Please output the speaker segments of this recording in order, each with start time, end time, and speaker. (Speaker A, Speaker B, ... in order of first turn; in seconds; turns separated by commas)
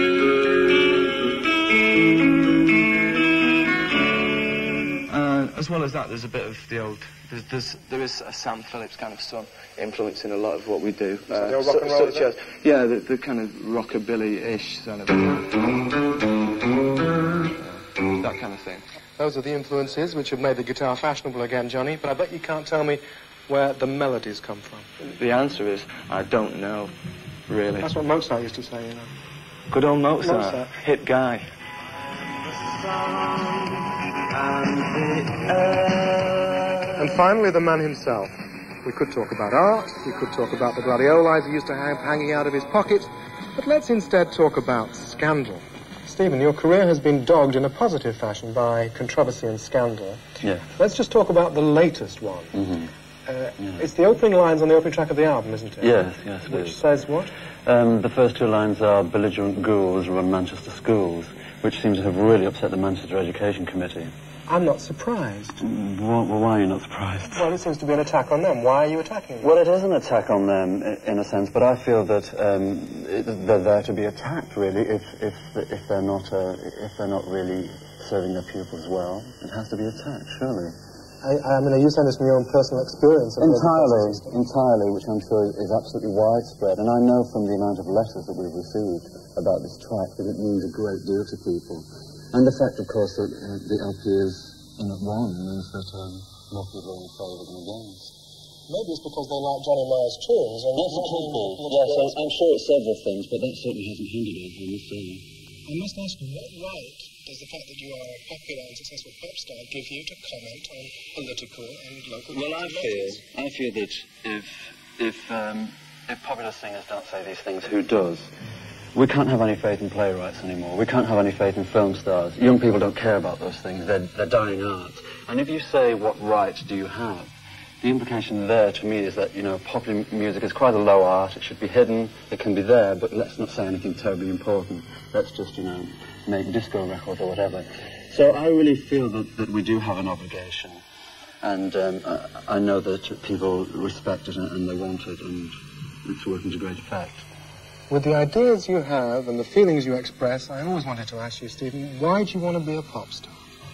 Speaker A: 5.1-15.6, Speaker B: 11.3-12.3, Speaker A: 17.6-18.8, Speaker B: 19.2-24.9, Speaker A: 25.1-26.9, Speaker A: 27.5-27.9, Speaker B: 27.8-29.1, Speaker A: 29.7-31.4, Speaker B: 30.2-30.7, Speaker A: 32.8-33.7, Speaker A: 34.4-36.8, Speaker B: 37.0-38.3, Speaker B: 38.8-50.2, Speaker C: 50.4-50.7, Speaker B: 50.8-52.6, Speaker C: 52.5-52.9, Speaker B: 53.2-57.3, Speaker C: 55.8-56.8, Speaker C: 57.6-64.1, Speaker B: 64.5-65.6, Speaker C: 65.6-67.5, Speaker B: 67.3-69.5, Speaker C: 69.4-80.7, Speaker B: 81.2-84.4, Speaker C: 83.4-98.1, Speaker B: 98.7-102.3, Speaker C: 100.8-105.2, Speaker B: 105.7-113.2, Speaker C: 112.3-118.3, Speaker C: 118.9-140.8, Speaker C: 141.4-145.5, Speaker C: 146.1-147.2, Speaker B: 147.9-153.3